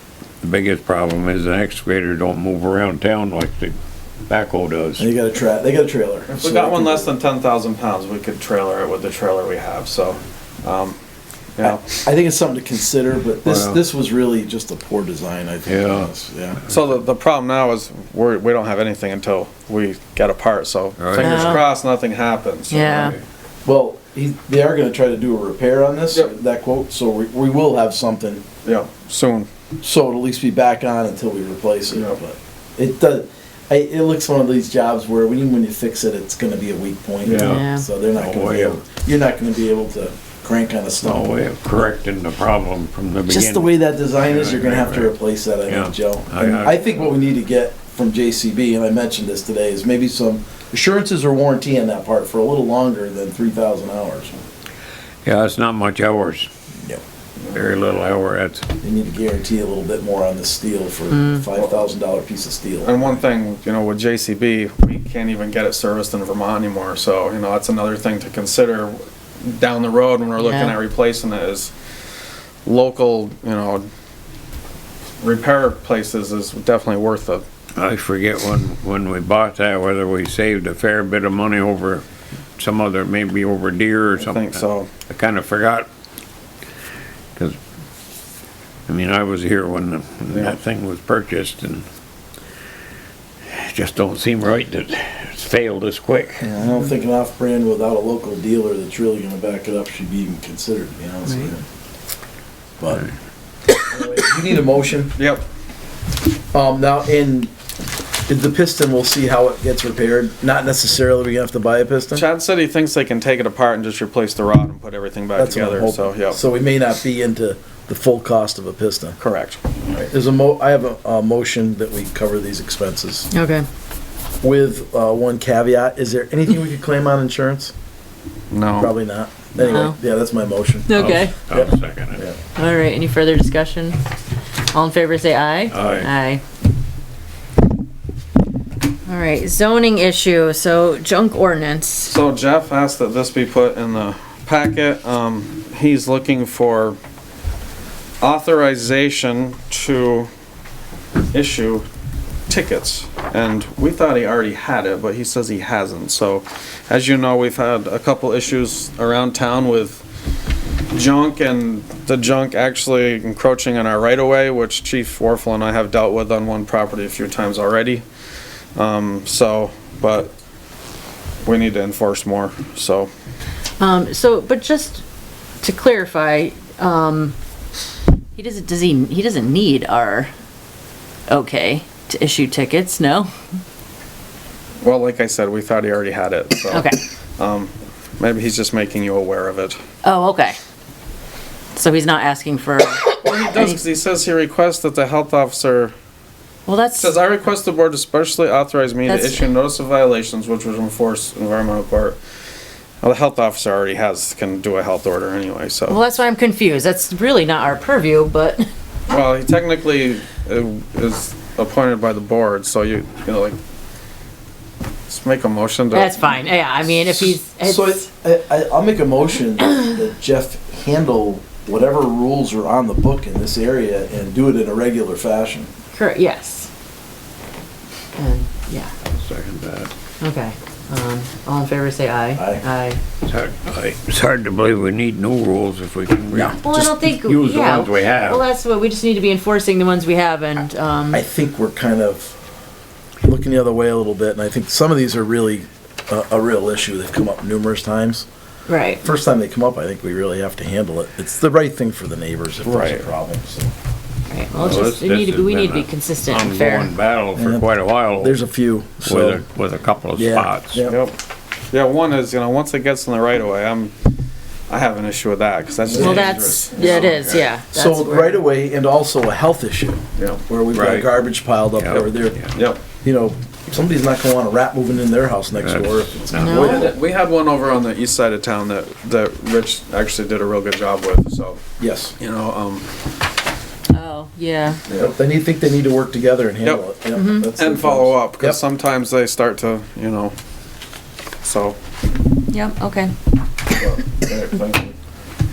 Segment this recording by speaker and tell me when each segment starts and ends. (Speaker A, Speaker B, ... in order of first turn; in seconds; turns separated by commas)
Speaker A: 0.4-3.8, Speaker A: 4.3-5.1, Speaker B: 5.0-7.1, Speaker C: 6.3-11.0, Speaker C: 11.6-11.9, Speaker B: 11.6-16.6, Speaker A: 13.4-13.8, Speaker A: 15.7-16.1, Speaker C: 16.7-23.1, Speaker A: 21.0-21.5, Speaker D: 21.2-21.7, Speaker D: 22.7-23.1, Speaker A: 22.9-23.2, Speaker B: 23.6-28.4, Speaker C: 28.6-29.5, Speaker B: 29.8-41.9, Speaker C: 31.9-32.2, Speaker A: 37.2-38.8, Speaker D: 37.4-37.9, Speaker A: 41.0-45.1, Speaker B: 43.3-54.4, Speaker A: 45.7-46.9, Speaker A: 55.2-56.5, Speaker A: 57.5-58.7, Speaker B: 58.8-63.2, Speaker D: 61.1-61.4, Speaker C: 62.8-71.7, Speaker D: 70.4-70.8, Speaker C: 72.7-73.9, Speaker C: 75.2-77.4, Speaker A: 77.8-82.0, Speaker A: 82.6-85.9, Speaker C: 84.2-84.9, Speaker A: 88.9-91.8, Speaker C: 90.3-90.6, Speaker A: 93.5-96.5, Speaker B: 96.4-101.6, Speaker B: 102.8-103.1, Speaker B: 103.9-105.2, Speaker C: 105.2-105.5, Speaker B: 106.5-107.5, Speaker B: 108.3-112.2, Speaker C: 112.1-116.4, Speaker B: 115.4-119.2, Speaker C: 119.2-119.6, Speaker B: 119.9-123.3, Speaker D: 123.3-123.7, Speaker B: 124.4-127.7, Speaker C: 128.5-128.9, Speaker B: 128.8-132.4, Speaker D: 129.6-130.0, Speaker D: 130.9-131.4, Speaker A: 130.9-132.2, Speaker D: 132.6-134.0, Speaker D: 134.7-136.4, Speaker A: 135.7-136.1, Speaker D: 139.1-142.1, Speaker C: 142.1-147.0, Speaker C: 148.2-150.3, Speaker C: 151.3-151.9, Speaker C: 152.5-160.0, Speaker C: 160.9-168.1, Speaker C: 168.8-170.3, Speaker C: 171.4-173.1, Speaker D: 173.8-175.0, Speaker D: 175.6-177.3, Speaker D: 178.3-180.3, Speaker D: 181.3-183.3, Speaker C: 184.8-189.8, Speaker D: 186.7-187.0, Speaker D: 190.0-190.6, Speaker D: 191.7-193.8, Speaker C: 193.2-195.9, Speaker D: 196.7-197.2, Speaker C: 197.0-202.2, Speaker D: 199.1-199.5, Speaker C: 203.0-206.0, Speaker D: 205.9-208.7, Speaker C: 209.1-213.6, Speaker C: 215.1-216.3, Speaker D: 215.9-218.1, Speaker B: 217.1-225.7, Speaker D: 225.9-226.7, Speaker D: 228.2-228.9, Speaker A: 229.1-229.9, Speaker D: 230.2-233.0, Speaker B: 232.4-232.6, Speaker A: 233.2-238.4, Speaker B: 236.3-236.9, Speaker D: 236.6-241.2, Speaker B: 241.1-242.3, Speaker B: 243.2-248.3, Speaker D: 248.7-249.0, Speaker B: 249.0-253.7, Speaker C: 252.6-253.1, Speaker D: 254.3-256.9, Speaker A: 254.6-258.4, Speaker B: 257.4-259.4, Speaker A: 259.0-260.8, Speaker B: 260.1-261.0, Speaker C: 260.9-261.1, Speaker C: 261.7-264.0, Speaker C: 264.7-267.5, Speaker B: 265.9-267.2, Speaker D: 266.0-268.4, Speaker B: 267.7-272.4, Speaker C: 270.2-270.4, Speaker A: 270.7-271.1, Speaker A: 271.8-272.6, Speaker C: 271.9-272.8, Speaker B: 273.0-276.9, Speaker A: 275.6-276.7, Speaker D: 276.4-276.9, Speaker C: 276.5-281.6, Speaker B: 281.8-282.1, Speaker C: 282.2-282.9, Speaker D: 283.9-284.8, Speaker B: 285.0-288.6, Speaker D: 287.2-287.5, Speaker C: 287.6-290.4, Speaker C: 291.4-291.8, Speaker D: 292.5-293.1, Speaker C: 293.7-294.9